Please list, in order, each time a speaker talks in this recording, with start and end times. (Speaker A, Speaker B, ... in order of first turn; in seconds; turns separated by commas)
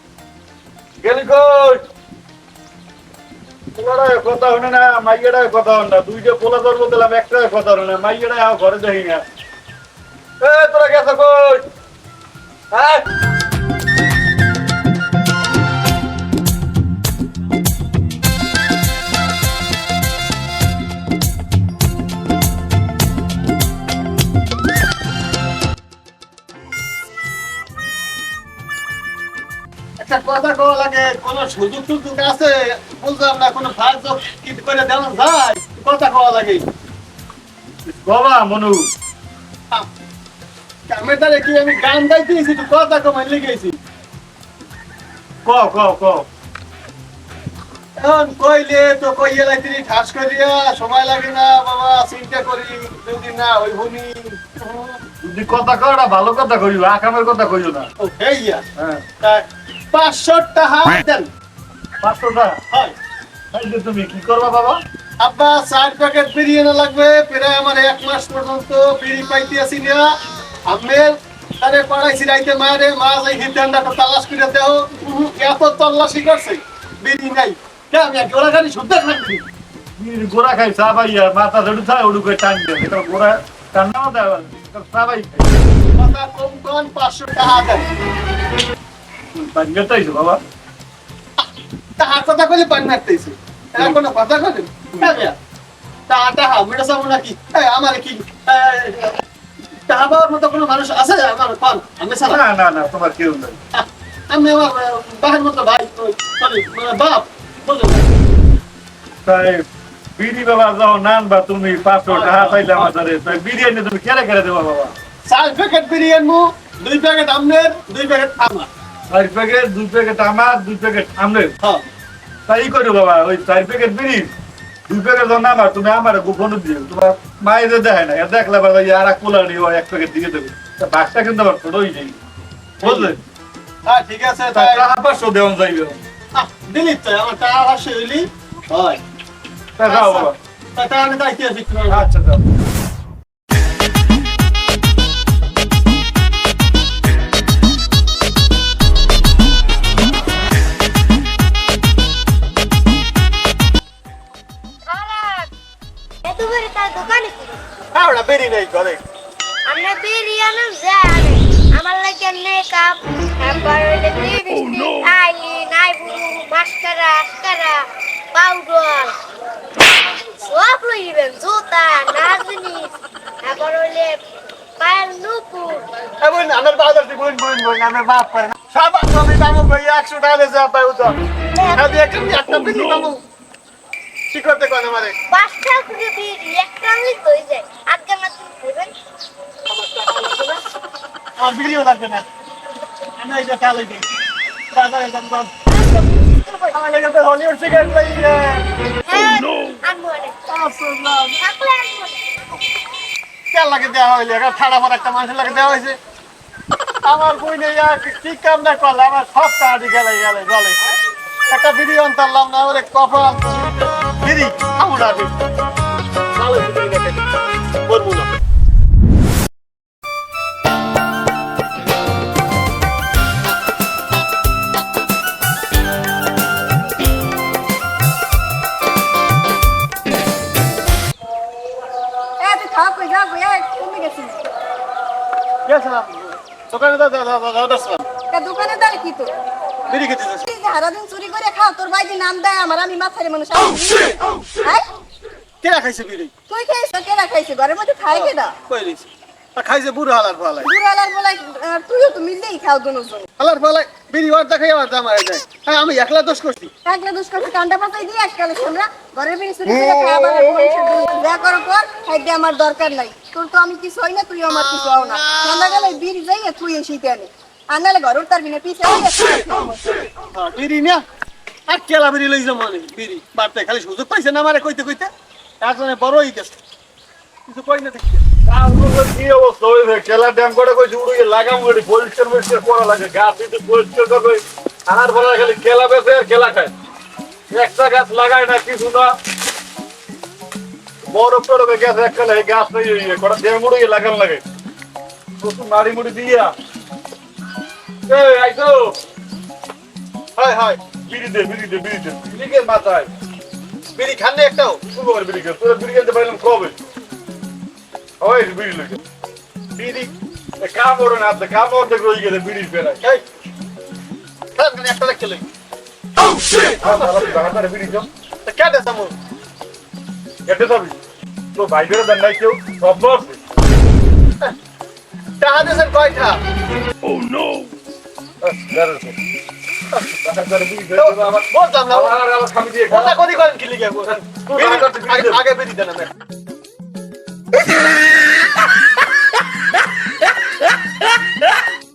Speaker A: 1.0-1.8, Speaker A: 3.7-9.2, Speaker A: 10.4-11.6, Speaker A: 12.7-13.0, Speaker B: 30.0-36.6, Speaker A: 37.9-38.9, Speaker B: 40.9-43.8, Speaker A: 45.4-46.2, Speaker B: 48.0-55.0, Speaker A: 55.2-57.9, Speaker B: 58.0-58.6, Speaker A: 58.8-59.0, Speaker B: 59.2-61.3, Speaker A: 62.0-62.6, Speaker A: 63.5-64.8, Speaker B: 65.2-70.0, Speaker B: 70.7-79.5, Speaker A: 80.0-85.5, Speaker B: 86.0-87.8, Speaker A: 89.3-90.4, Speaker B: 91.4-95.3, Speaker B: 96.1-99.2, Speaker B: 99.9-102.4, Speaker A: 102.3-103.6, Speaker B: 103.7-108.0, Speaker A: 109.2-109.6, Speaker A: 110.2-114.9, Speaker B: 112.1-112.9, Speaker B: 115.2-118.7, Speaker A: 119.1-121.5, Speaker A: 122.5-124.3, Speaker A: 124.9-132.2, Speaker B: 132.8-133.1, Speaker A: 132.8-133.2, Speaker B: 133.8-134.9, Speaker A: 134.5-136.0, Speaker B: 136.3-139.0, Speaker A: 139.8-140.3, Speaker B: 139.8-142.1, Speaker A: 141.9-142.4, Speaker C: 154.9-155.5, Speaker C: 156.2-157.6, Speaker B: 157.9-159.0, Speaker C: 159.7-167.8, Speaker C: 168.3-169.1, Speaker C: 170.4-172.9, Speaker C: 173.4-174.2, Speaker C: 174.8-175.8, Speaker B: 176.2-181.2, Speaker C: 181.5-181.9, Speaker B: 181.7-183.2, Speaker B: 184.3-185.1, Speaker C: 185.3-188.9, Speaker B: 189.7-190.6, Speaker B: 191.4-192.2, Speaker B: 193.2-194.1, Speaker B: 194.7-195.6, Speaker C: 195.7-196.8, Speaker B: 196.7-198.6, Speaker C: 199.1-200.3, Speaker B: 200.5-201.4, Speaker C: 201.4-202.2, Speaker B: 203.5-206.0, Speaker B: 207.0-210.9, Speaker B: 211.5-215.3, Speaker B: 216.3-217.2, Speaker B: 217.8-218.3, Speaker D: 232.4-234.4, Speaker B: 235.7-238.0, Speaker D: 238.3-239.3, Speaker B: 239.9-240.5, Speaker D: 240.4-244.8, Speaker B: 245.6-246.3, Speaker D: 246.5-248.5, Speaker B: 248.1-250.7, Speaker D: 250.6-253.3, Speaker B: 253.4-256.7, Speaker D: 256.8-270.0, Speaker B: 265.0-265.9, Speaker B: 270.3-271.0, Speaker B: 271.7-275.1, Speaker B: 275.6-276.6, Speaker B: 277.4-278.2, Speaker A: 278.4-286.7, Speaker A: 287.5-289.1, Speaker A: 291.1-294.4, Speaker A: 295.4-296.5, Speaker A: 298.1-298.9, Speaker B: 300.4-300.8, Speaker A: 301.0-303.1, Speaker B: 303.9-304.8, Speaker A: 304.9-306.8, Speaker A: 308.2-309.0, Speaker B: 309.8-310.1, Speaker A: 310.6-313.0, Speaker B: 314.6-315.4, Speaker A: 316.8-318.1, Speaker B: 318.4-319.1, Speaker A: 320.4-321.0, Speaker A: 321.5-323.4, Speaker B: 325.4-326.4, Speaker A: 328.4-329.2, Speaker A: 330.2-333.2, Speaker B: 330.9-332.1, Speaker B: 332.9-336.1, Speaker A: 334.1-335.4